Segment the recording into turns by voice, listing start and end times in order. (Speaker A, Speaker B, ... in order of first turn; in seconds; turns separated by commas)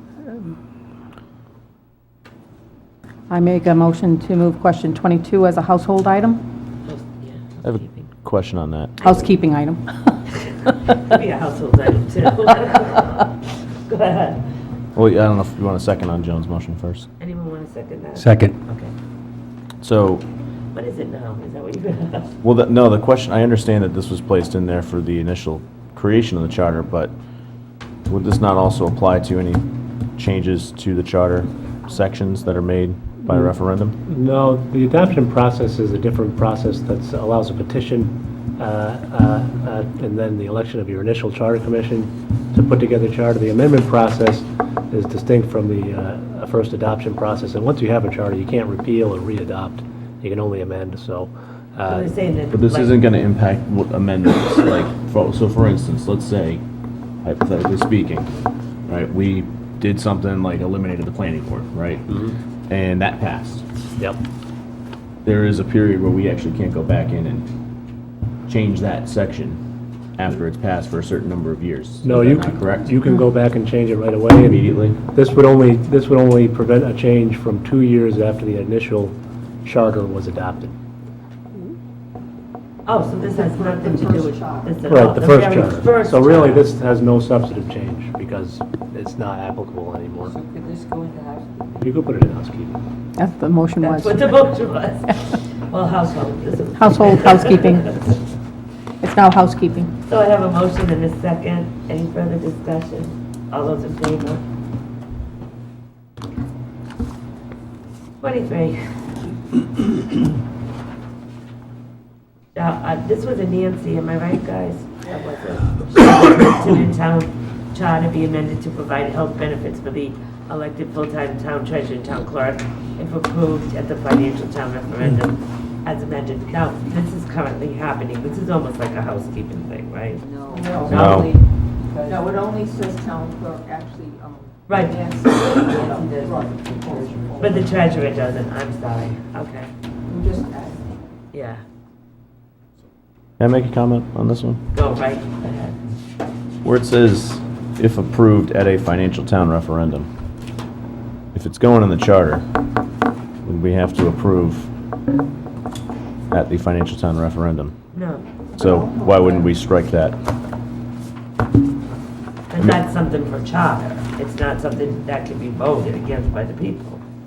Speaker A: 3.3-6.4, Speaker B: 6.9-8.1, Speaker C: 7.6-9.1, Speaker A: 9.0-10.3, Speaker B: 10.7-14.5, Speaker C: 14.9-17.1, Speaker B: 17.2-18.9, Speaker C: 19.8-20.2, Speaker B: 20.7-22.4, Speaker C: 22.4-27.1, Speaker C: 28.1-29.7, Speaker C: 30.2-34.0, Speaker D: 34.1-52.2, Speaker B: 51.9-53.0, Speaker C: 52.5-56.6, Speaker C: 57.2-58.3, Speaker C: 58.9-62.1, Speaker D: 62.1-62.4, Speaker C: 62.7-63.7, Speaker C: 65.2-67.5, Speaker C: 68.5-69.6, Speaker C: 70.2-72.9, Speaker D: 72.0-80.7, Speaker C: 74.4-75.0, Speaker B: 82.9-86.7, Speaker E: 83.3-84.8, Speaker D: 84.9-90.4, Speaker F: 90.2-91.9, Speaker D: 91.8-92.8, Speaker A: 93.2-94.3, Speaker B: 93.8-98.0, Speaker A: 96.8-98.0, Speaker A: 99.0-99.9, Speaker B: 100.1-104.4, Speaker B: 108.2-108.8, Speaker B: 112.5-130.2, Speaker F: 130.2-131.0, Speaker E: 130.5-131.4, Speaker C: 130.9-131.4, Speaker B: 130.9-131.3, Speaker F: 131.8-132.3, Speaker E: 132.1-137.4, Speaker B: 134.7-135.9, Speaker F: 135.4-137.8, Speaker B: 137.4-139.7, Speaker E: 140.1-141.0, Speaker B: 141.3-141.6, Speaker C: 143.4-144.6, Speaker B: 144.7-145.8, Speaker C: 146.6-150.1, Speaker C: 151.3-152.4, Speaker C: 153.4-154.7, Speaker C: 156.3-157.8, Speaker B: 157.9-158.3, Speaker E: 158.6-159.4, Speaker C: 158.6-160.2, Speaker B: 162.5-167.0